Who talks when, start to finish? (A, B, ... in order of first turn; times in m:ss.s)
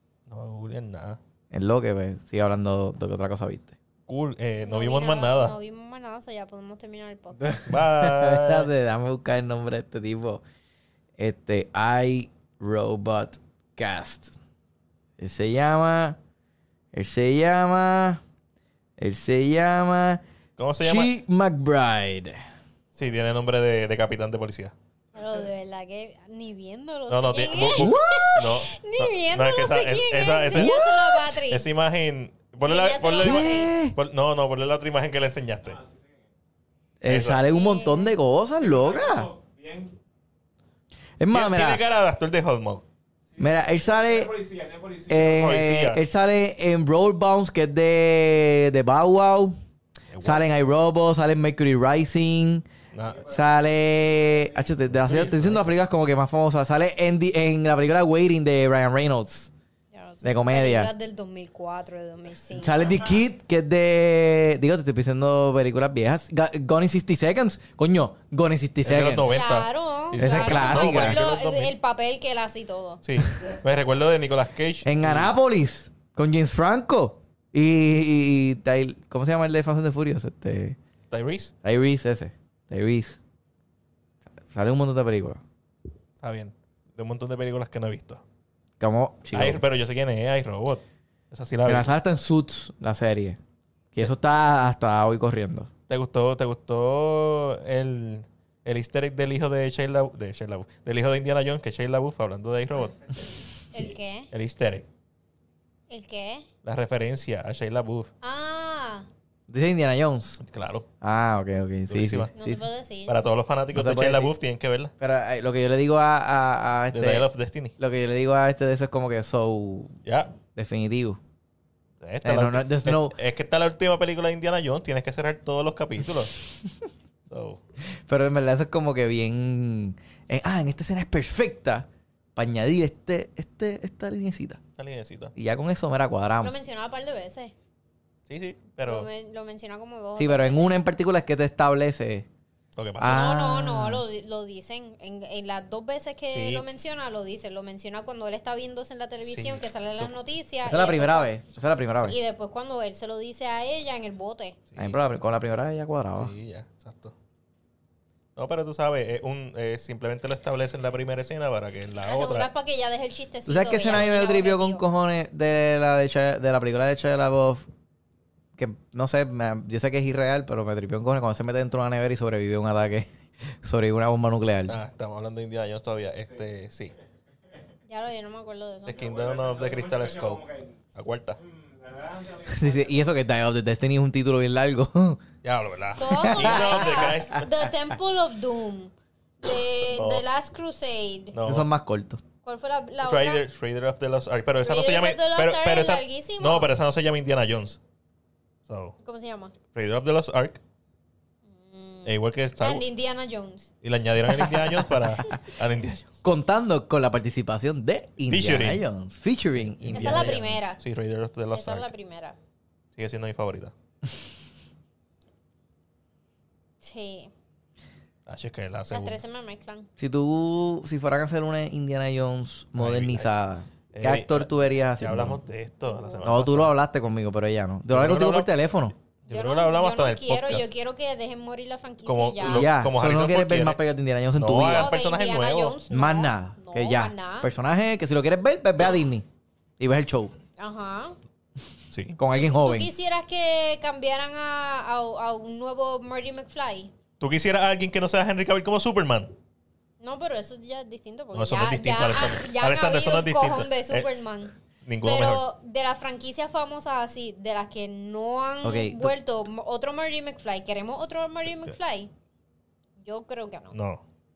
0:00.3-0:01.2 A
0:01.5-0:03.7 B
0:04.1-0:05.5 A
0:04.6-0:07.6 C
0:07.4-0:10.4 B
0:07.7-0:08.7 A
0:11.2-0:14.4 B
0:15.2-0:16.2 B
0:16.9-0:18.2 B
0:19.0-0:20.2 B
0:20.6-0:21.1 A
0:20.8-0:22.4 B
0:22.9-0:24.7 A
0:25.1-0:31.6 C
0:27.1-0:35.8 A
0:27.7-0:28.4 B
0:30.5-0:31.2 B
0:32.6-0:33.7 C
0:33.2-0:34.0 B
0:35.6-0:36.2 D
0:37.0-0:39.3 B
0:37.0-0:37.4 A
0:37.5-0:38.2 C
0:38.6-0:39.9 D
0:41.2-0:41.8 B
0:41.3-0:42.8 A
0:43.3-0:45.7 D
0:43.4-0:44.3 B
0:45.1-0:49.6 B
0:45.3-0:46.0 A
0:50.1-0:50.4 A
0:50.2-0:52.6 B
0:52.9-0:53.2 A
0:53.0-0:53.5 D
0:53.2-0:59.5 B
0:54.0-0:55.4 D
0:55.0-0:55.6 A
0:59.9-1:03.0 C
1:00.2-1:00.9 B
1:02.5-1:09.3 B
1:08.8-1:11.7 A
1:09.3-1:13.0 C
1:10.2-1:11.2 B
1:13.0-1:15.3 A
1:14.8-1:20.8 B
1:21.1-1:21.5 A
1:21.6-1:23.2 B
1:24.5-1:25.4 B
1:26.2-1:28.2 A
1:28.8-1:29.6 B
1:29.3-1:31.9 A
1:31.6-1:33.4 B
1:33.9-1:35.7 B
1:35.9-1:43.2 A
1:43.7-1:44.3 C
1:44.3-1:44.8 A
1:45.9-1:46.5 C
1:46.6-1:48.1 A
1:48.2-1:49.1 C
1:49.5-1:50.4 B
1:50.4-1:50.9 A
1:51.0-1:52.6 B
1:51.9-1:52.3 A
1:52.3-1:53.2 C
1:53.1-1:54.9 A
1:53.7-1:54.3 B
1:55.0-1:57.3 B
1:56.9-1:57.7 A
1:57.8-2:00.0 B
2:00.0-2:00.3 A
2:00.5-2:01.2 B
2:02.0-2:06.4 A
2:02.2-2:03.1 B
2:07.3-2:07.6 A
2:08.1-2:14.6 B
2:14.8-2:15.3 A
2:15.3-2:16.5 B
2:16.4-2:17.5 C
2:18.3-2:19.1 A
2:18.8-2:20.8 C
2:20.2-2:22.2 B
2:22.8-2:23.3 A
2:23.0-2:24.0 B
2:23.0-2:31.3 C
2:26.3-2:26.8 A
2:29.2-2:30.1 A
2:30.6-2:32.2 B
2:32.0-2:34.6 C
2:34.7-2:35.0 A
2:34.8-2:36.3 B
2:36.2-2:37.1 A
2:38.4-2:42.5 A
2:42.0-2:44.8 C
2:43.5-2:47.7 B
2:48.6-2:53.1 B
2:53.6-2:54.8 B
2:54.7-2:56.9 A
2:57.9-2:59.0 C
2:58.8-3:00.4 A
2:58.9-3:00.8 D
3:00.9-3:01.4 A
3:01.4-3:03.1 D
3:02.5-3:05.2 B
3:05.4-3:07.5 A
3:06.0-3:11.4 C
3:06.0-3:07.4 B
3:09.9-3:10.2 A
3:11.3-3:11.7 A
3:11.4-3:12.2 B
3:12.4-3:13.4 C
3:13.0-3:17.8 A
3:14.6-3:16.7 C
3:18.6-3:18.9 A
3:19.0-3:19.5 C
3:19.7-3:20.6 A
3:21.5-3:23.7 C
3:22.0-3:22.8 A
3:23.8-3:26.1 A
3:24.3-3:24.9 B
3:26.2-3:30.5 B
3:28.3-3:28.8 A
3:29.5-3:31.9 A
3:29.9-3:30.8 C
3:31.5-3:32.4 C
3:33.0-3:33.7 A
3:36.8-3:37.3 C
3:38.2-3:39.2 A
3:38.9-3:39.9 C
3:40.0-3:45.4 B
3:42.8-3:43.3 A
3:43.9-3:46.7 A
3:45.9-3:46.2 C
3:46.2-3:48.9 B
3:47.9-3:48.5 A
3:49.2-3:50.7 A
3:49.3-3:52.7 C
3:52.0-3:53.8 A
3:52.4-3:54.9 B
3:54.4-3:55.8 A
3:54.7-3:57.5 C
3:55.9-3:59.2 B
3:59.8-4:00.3 B
4:00.6-4:01.2 C
4:01.9-4:02.2 A
4:02.2-4:02.9 B
4:02.3-4:06.9 C
4:07.2-4:09.3 A
4:10.0-4:22.1 C
4:11.3-4:14.1 A
4:14.8-4:15.4 A
4:18.6-4:19.1 B
4:23.0-4:23.7 C
4:23.7-4:24.0 A